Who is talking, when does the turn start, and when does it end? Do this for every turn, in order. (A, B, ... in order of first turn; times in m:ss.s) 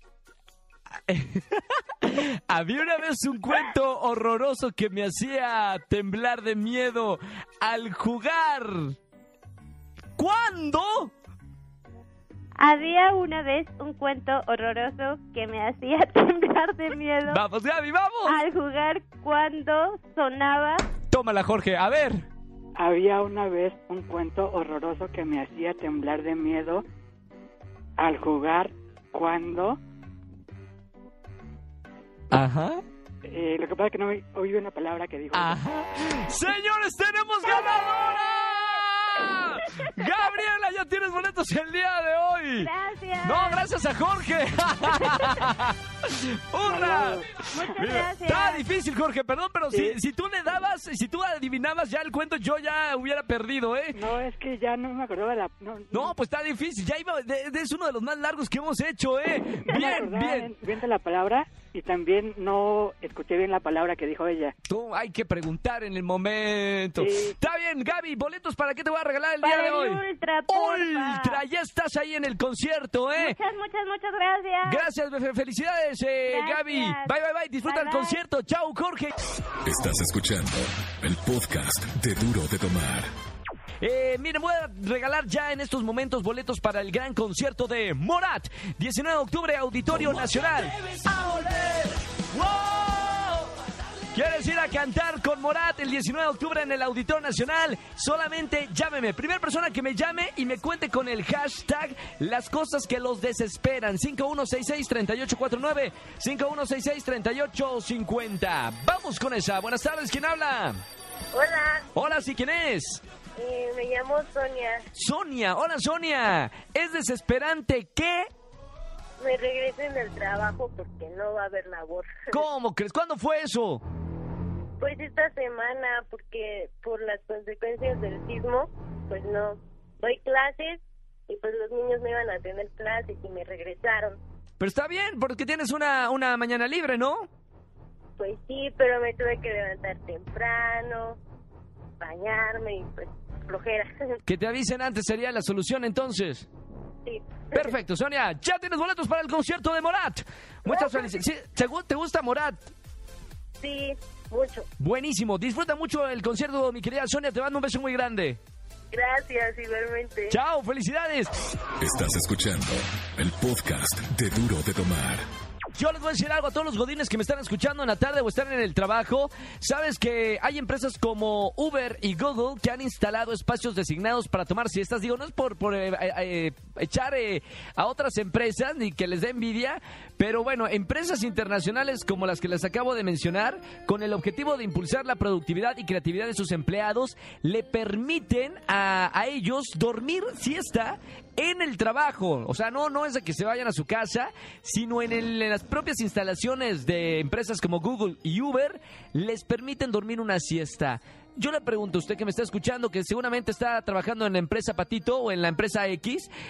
0:01.1-0:09.0 A
0:10.2-0:11.1 A
0:12.6-0:17.4 B
0:17.2-0:18.4 A
0:18.2-0:20.8 B
0:21.1-0:22.2 A
0:22.8-0:26.8 C
0:28.0-0:29.8 C
0:32.3-0:32.8 A
0:33.2-0:35.6 C
0:35.3-0:42.7 A
0:42.6-0:43.7 B
0:43.2-0:54.0 A
0:46.6-0:47.4 C
0:47.5-0:48.6 B
0:49.7-0:50.0 C
0:53.9-0:56.1 C
0:55.9-1:00.5 A
0:59.6-1:04.5 C
1:04.6-1:13.4 A
1:07.0-1:07.4 C
1:09.4-1:11.4 B
1:13.1-1:14.9 B
1:14.6-1:19.1 A
1:16.2-1:17.1 B
1:17.6-1:18.2 B
1:19.6-1:23.1 D
1:23.8-1:33.6 A
1:34.1-1:50.8 A
1:51.3-1:51.9 E
1:51.9-1:53.0 A
1:53.4-1:54.8 E
1:54.9-1:58.3 A
1:59.2-2:02.1 E
2:02.3-2:03.8 A
2:04.8-2:14.2 E
2:14.6-2:17.3 A
2:18.2-2:21.2 E
2:22.0-2:24.2 E
2:24.2-2:26.5 A
2:27.0-2:27.7 E
2:27.5-2:32.6 A
2:30.7-2:31.1 E
2:33.6-2:34.7 E
2:34.8-2:38.4 A
2:38.9-2:40.4 E
2:40.3-2:41.3 A
2:41.8-2:45.2 D
2:45.7-3:26.3 A